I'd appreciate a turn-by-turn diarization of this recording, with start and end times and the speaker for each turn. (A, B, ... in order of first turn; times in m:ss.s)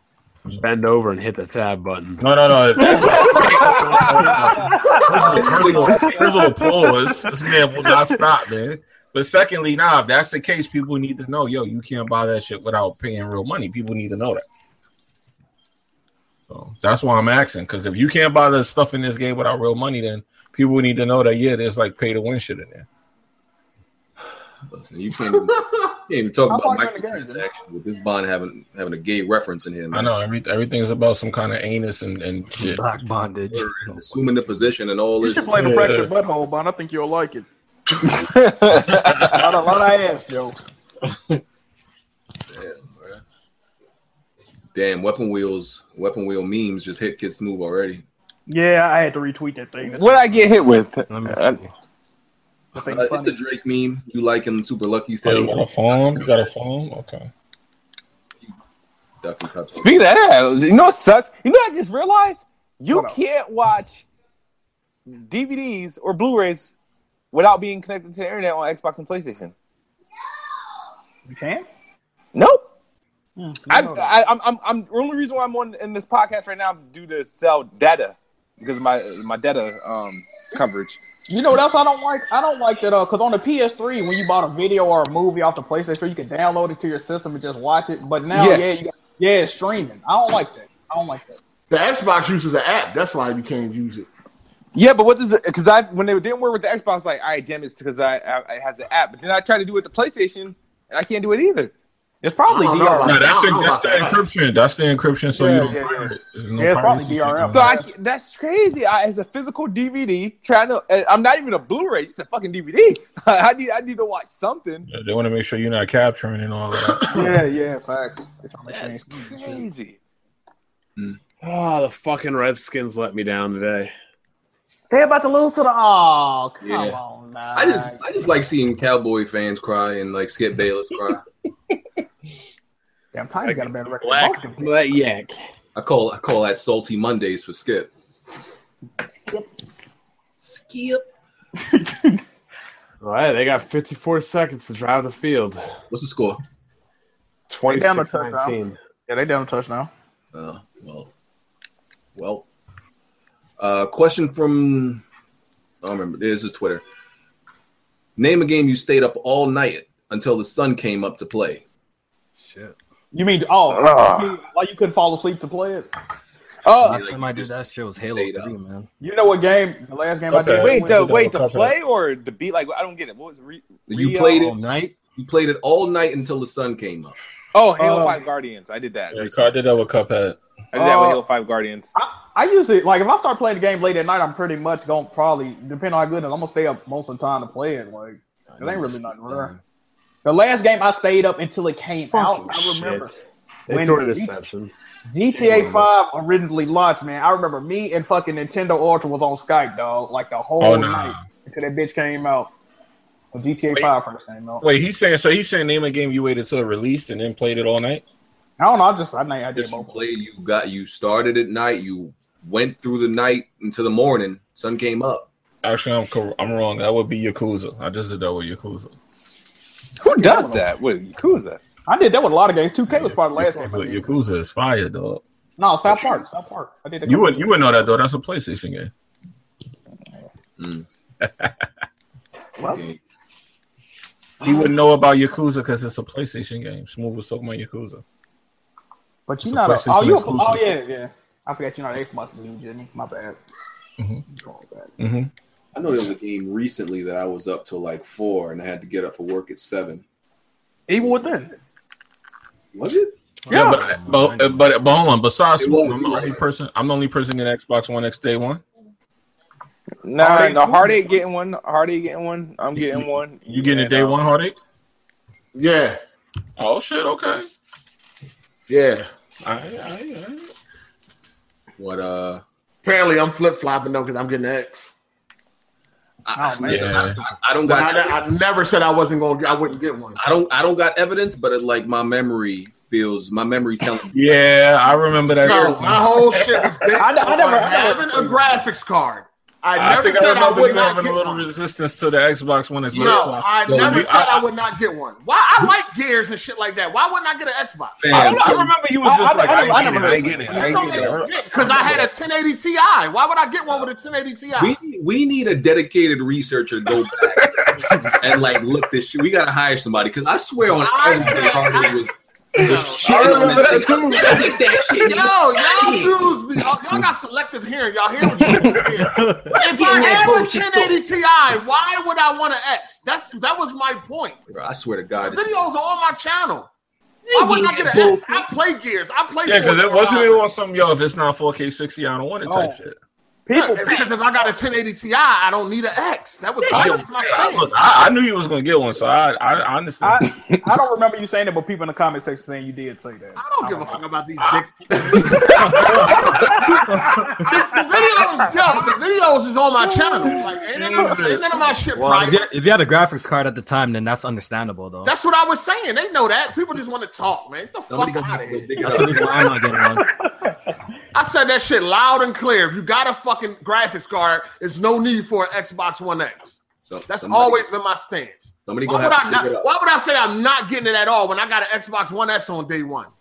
0:00.5-0:02.2 A
0:02.2-0:14.4 B
0:03.0-0:04.9 C
0:03.5-0:04.0 D
0:04.7-0:07.1 E
0:04.9-0:06.5 D
0:16.5-0:22.9 B
0:24.7-0:30.1 D
0:26.5-0:27.4 E
0:29.9-0:32.8 B
0:32.6-0:34.7 F
0:33.5-0:35.6 D
0:35.2-0:37.4 E
0:35.5-0:36.1 B
0:38.2-0:39.3 C
0:39.0-0:39.4 B
0:39.0-0:40.7 E
0:42.5-0:43.2 D
0:44.7-0:48.0 D
0:48.5-0:50.2 E
0:49.8-0:51.6 C
0:51.1-0:51.7 F
0:52.7-0:53.4 E
0:52.8-0:56.3 D
0:55.2-0:57.3 B
0:59.2-1:00.0 D
0:59.7-1:04.0 C
1:02.9-1:03.2 E
1:05.1-1:06.7 C
1:07.3-1:09.5 C
1:11.2-1:11.6 E
1:12.3-1:12.6 C
1:13.4-1:14.1 E
1:13.7-1:21.0 C
1:21.3-1:31.4 E
1:28.3-1:28.7 C
1:31.7-1:34.1 G
1:34.7-1:41.7 C
1:42.2-1:43.3 E
1:42.5-1:44.2 G
1:43.0-1:47.7 B
1:45.3-1:47.8 E
1:47.5-1:54.9 C
1:54.9-1:57.3 B
1:57.1-1:59.6 E
1:58.7-2:00.0 C
2:01.4-2:03.9 A
2:04.9-2:08.0 E
2:06.6-2:07.0 D
2:07.5-2:11.2 D
2:13.1-2:14.8 E
2:13.4-2:15.4 A
2:15.7-2:17.9 D
2:19.1-2:19.4 E
2:20.4-2:21.0 D
2:21.6-2:22.2 E
2:23.0-2:25.6 A
2:25.9-2:26.4 D
2:27.5-2:28.8 A
2:27.7-2:29.9 E
2:30.3-2:31.1 D
2:32.2-2:32.4 D
2:33.6-2:35.0 D
2:35.8-2:36.8 D
2:38.2-2:41.6 D
2:42.4-2:42.8 F
2:43.1-2:45.9 E
2:43.7-2:44.4 C
2:46.6-2:47.0 C
2:46.7-2:48.5 D
2:46.8-2:48.9 F
2:49.0-2:51.0 E
2:50.3-2:51.8 B
2:50.5-2:54.4 C
2:53.9-2:54.5 D
2:54.3-2:54.9 F
2:55.2-2:57.2 D
2:57.5-2:59.5 C
2:57.8-2:58.2 E
2:59.1-3:00.4 B
3:00.7-3:01.9 C
3:00.7-3:01.2 E
3:01.9-3:09.5 E
3:08.5-3:09.0 D
3:10.2-3:13.1 E
3:12.1-3:13.1 A
3:13.7-3:14.7 A
3:13.7-3:14.4 E
3:15.1-3:22.5 E
3:20.6-3:21.3 B
3:23.3-3:24.6 E
3:24.6-3:28.0 B
3:28.6-3:30.0 E
3:29.5-3:35.3 D
3:35.6-3:38.9 B
3:40.0-3:41.6 C
3:40.0-3:40.6 E
3:41.9-3:44.2 E
3:42.9-3:45.2 B
3:45.6-3:47.6 E
3:45.9-3:46.2 B
3:47.0-3:48.9 B
3:50.6-3:50.8 D
3:51.2-3:51.5 B
3:52.6-3:52.8 E
3:52.6-3:53.0 D
3:54.4-3:58.0 B
3:54.4-3:54.7 E
3:59.3-4:03.4 E
3:59.4-4:00.7 B
4:04.3-4:04.9 E
4:05.0-4:05.3 B
4:05.7-4:10.0 D
4:10.9-4:11.6 E
4:12.7-4:13.1 D
4:13.5-4:14.6 F
4:13.5-4:18.6 B
4:15.6-4:16.4 D
4:20.0-4:24.2 C
4:20.2-4:21.2 E
4:22.7-4:24.6 B
4:25.5-4:26.0 G
4:26.6-4:27.4 B
4:28.7-4:29.1 G
4:29.4-4:30.5 B
4:31.8-4:32.4 D
4:32.8-4:34.9 G
4:36.2-4:38.2 D
4:36.3-4:37.0 E
4:36.7-4:37.2 B
4:37.6-4:40.2 G
4:40.2-4:44.1 D
4:44.1-4:47.0 B
4:45.4-4:51.5 G
4:47.0-4:48.6 E
4:49.7-4:54.4 B
4:52.9-4:58.1 G
4:52.9-4:54.1 D
4:58.0-4:58.7 D
4:58.1-5:02.1 B
4:58.2-5:01.2 E
5:00.5-5:04.8 G
5:00.6-5:01.2 D
5:04.6-5:16.4 D
5:10.7-5:12.0 G
5:12.6-5:24.4 G
5:12.6-5:14.2 B
5:18.6-5:19.5 B
5:19.5-5:21.0 D
5:24.5-5:25.6 D
5:25.2-5:26.7 G
5:27.3-5:28.4 D
5:27.3-5:30.4 G
5:29.4-5:33.0 B
5:32.4-5:32.8 E
5:33.4-5:34.1 E
5:33.5-5:37.7 G
5:36.6-5:37.5 D
5:36.7-5:40.2 B
5:40.0-5:44.0 E
5:40.4-5:40.7 C
5:43.4-5:46.8 G
5:45.1-5:46.8 B
5:46.1-5:48.1 E
5:47.4-5:52.5 G
5:49.8-5:50.5 E
5:50.7-5:51.6 B
5:51.9-5:55.1 F
5:55.0-5:59.2 G
5:57.9-5:59.5 D
5:58.8-6:00.1 F
6:00.0-6:00.5 E
6:01.1-6:13.1 G
6:06.8-6:07.6 D
6:08.6-6:09.7 D